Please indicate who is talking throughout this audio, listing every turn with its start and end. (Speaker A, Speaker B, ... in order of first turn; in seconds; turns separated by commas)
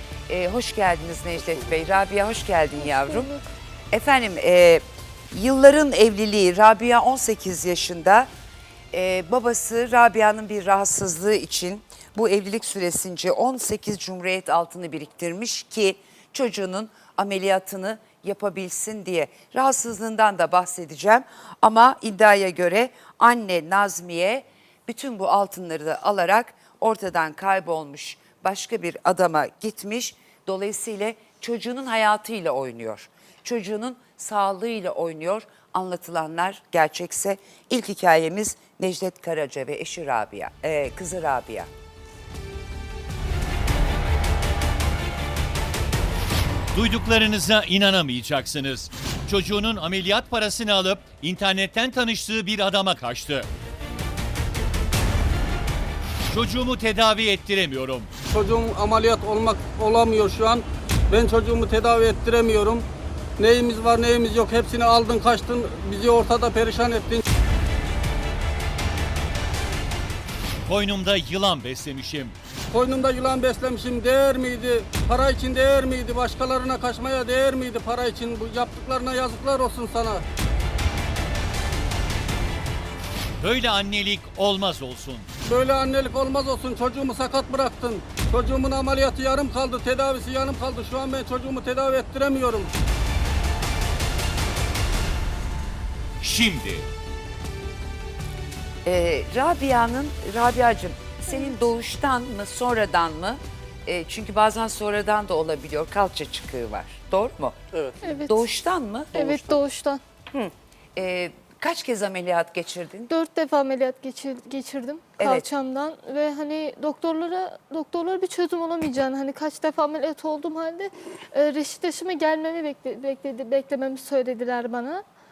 Speaker A: 0.3-3.3, Speaker B: 2.8-3.5, Speaker A: 3.9-8.3, Speaker A: 8.9-41.7, Speaker C: 46.7-53.5, Speaker C: 56.3-58.1, Speaker D: 58.3-62.9, Speaker D: 63.4-67.2, Speaker C: 70.7-72.4, Speaker D: 72.7-80.2, Speaker C: 83.4-85.3, Speaker D: 85.5-92.7, Speaker C: 96.2-96.9, Speaker A: 98.8-109.2, Speaker D: 107.7-108.0, Speaker B: 108.0-108.4, Speaker D: 109.1-109.6, Speaker B: 109.2-110.0, Speaker A: 110.3-113.1, Speaker B: 113.1-125.0, Speaker A: 115.2-115.5